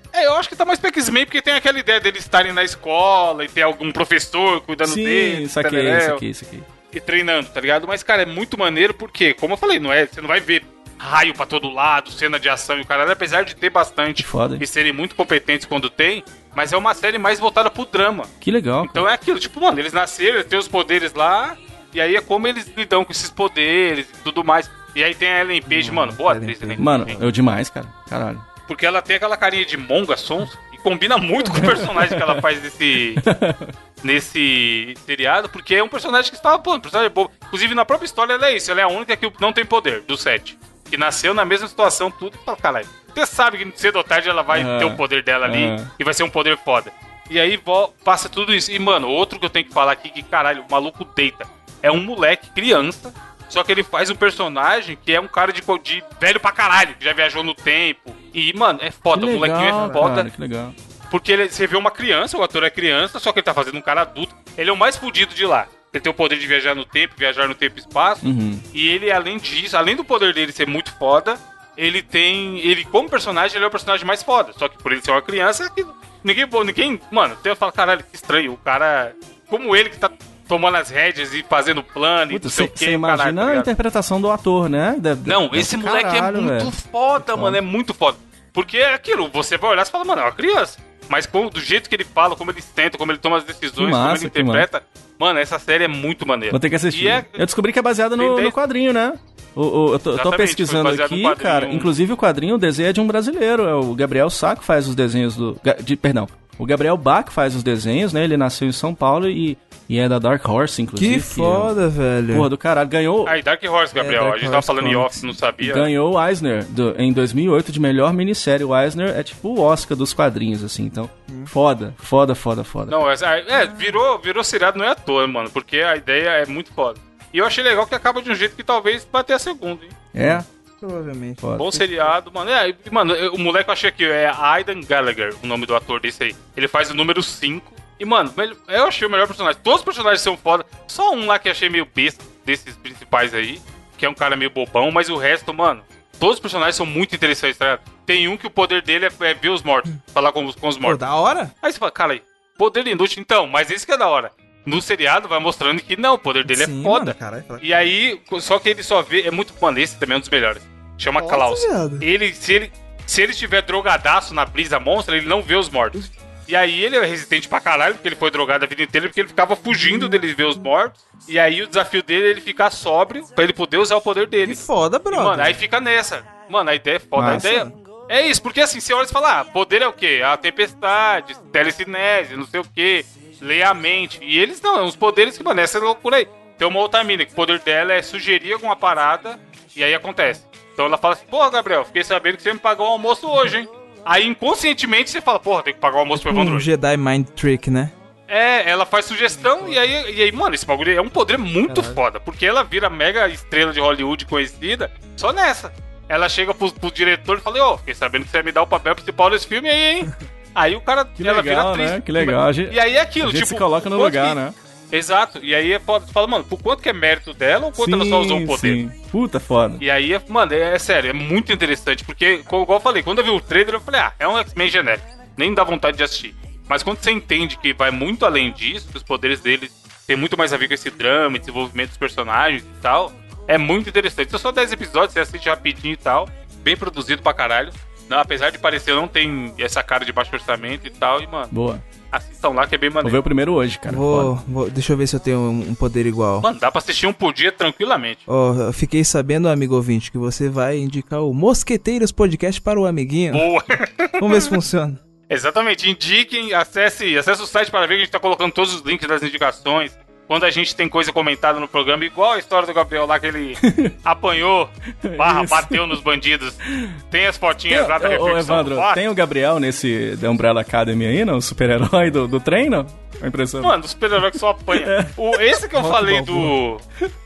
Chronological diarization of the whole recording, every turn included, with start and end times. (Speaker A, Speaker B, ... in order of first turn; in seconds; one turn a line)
Speaker A: 0.1-6.2
Speaker B: 4.8-6.7
Speaker A: 6.9-18.3
Speaker B: 14.2-14.7
Speaker B: 18.4-19.1
Speaker A: 18.8-27.2
Speaker C: 25.7-27.3
Speaker B: 26.8-28.4
Speaker A: 28.7-33.2
Speaker B: 31.5-32.4
Speaker B: 33.2-33.7
Speaker A: 34.0-60.3
Speaker B: 44.5-45.9
Speaker B: 59.1-60.8
Speaker C: 59.8-60.0
Speaker A: 61.1-83.7
Speaker B: 68.2-68.7
Speaker B: 82.3-87.6
Speaker A: 85.2-97.4
Speaker B: 93.8-94.7
Speaker B: 96.5-111.8
Speaker A: 98.2-98.5
Speaker A: 100.1-101.9
Speaker C: 111.0-112.5
Speaker B: 112.3-113.4
Speaker A: 113.3-115.9
Speaker C: 114.0-115.2
Speaker B: 115.6-123.0
Speaker A: 122.9-129.9
Speaker B: 130.1-130.5
Speaker C: 130.2-132.2
Speaker B: 131.4-131.7
Speaker A: 131.6-151.0
Speaker C: 150.8-151.5
Speaker A: 151.6-196.7
Speaker C: 156.4-157.8
Speaker C: 161.2-162.1
Speaker C: 169.7-170.2
Speaker C: 174.4-175.6
Speaker B: 177.2-177.5
Speaker C: 177.2-177.8
Speaker C: 196.2-197.9
Speaker A: 198.3-214.4
Speaker C: 199.3-199.8
Speaker C: 201.7-202.0
Speaker B: 211.2-214.6
Speaker A: 214.9-218.8
Speaker B: 217.8-219.8
Speaker A: 219.8-241.5
Speaker B: 241.5-241.8
Speaker A: 242.1-243.2
Speaker B: 243.0-244.3
Speaker C: 243.9-246.5
Speaker A: 246.4-248.2
Speaker C: 248.3-253.4
Speaker A: 253.3-254.5
Speaker C: 254.2-255.0
Speaker A: 255.3-269.0
Speaker B: 263.6-263.9
Speaker B: 265.0-265.9
Speaker B: 266.7-267.0
Speaker B: 267.7-276.6
Speaker A: 273.6-276.8